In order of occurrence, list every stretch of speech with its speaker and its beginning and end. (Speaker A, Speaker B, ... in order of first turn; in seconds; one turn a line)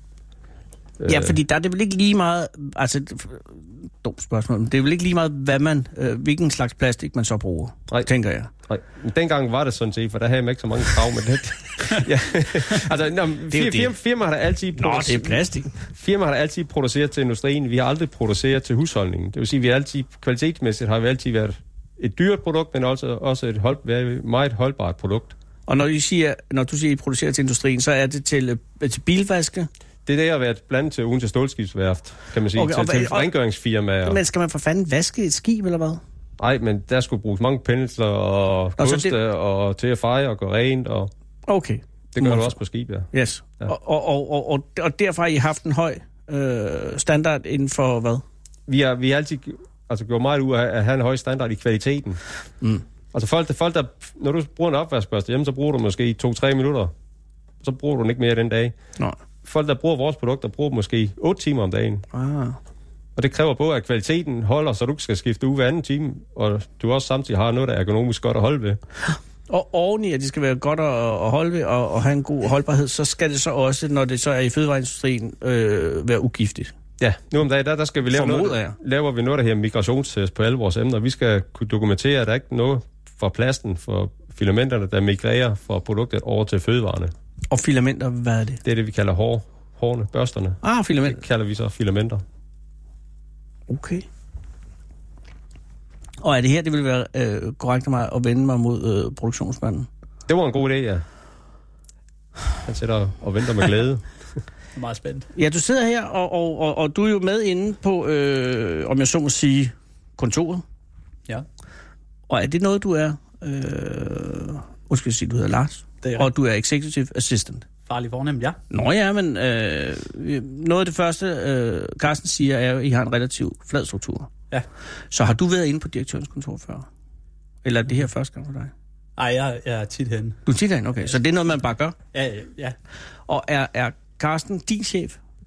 Speaker A: 1.0-1.4
Speaker B: 1.1-8.5
Speaker A: 8.7-25.3
Speaker B: 13.5-13.9
Speaker B: 14.8-15.7
Speaker B: 25.7-29.7
Speaker A: 30.1-34.2
Speaker B: 32.5-33.3
Speaker B: 34.0-36.0
Speaker A: 36.4-41.1
Speaker B: 38.8-39.2
Speaker B: 41.5-42.6
Speaker A: 42.1-43.1
Speaker B: 43.1-48.2
Speaker A: 48.7-52.2
Speaker A: 53.1-56.9
Speaker A: 57.6-58.7
Speaker A: 59.4-62.0
Speaker B: 62.1-62.6
Speaker A: 63.1-68.8
Speaker B: 69.5-76.7
Speaker A: 77.0-87.1
Speaker B: 78.1-78.8
Speaker B: 87.5-88.6
Speaker A: 88.6-92.2
Speaker B: 90.6-91.2
Speaker B: 93.7-94.0
Speaker B: 96.2-99.9
Speaker A: 100.3-101.0
Speaker A: 102.6-104.0
Speaker C: 104.7-105.3
Speaker B: 105.3-110.6
Speaker B: 112.3-117.7
Speaker C: 116.0-116.3
Speaker C: 117.8-118.6
Speaker B: 118.7-124.3
Speaker B: 125.1-126.8
Speaker B: 127.6-128.7
Speaker C: 129.2-130.4
Speaker B: 130.4-131.9
Speaker C: 132.1-132.8
Speaker B: 133.3-135.2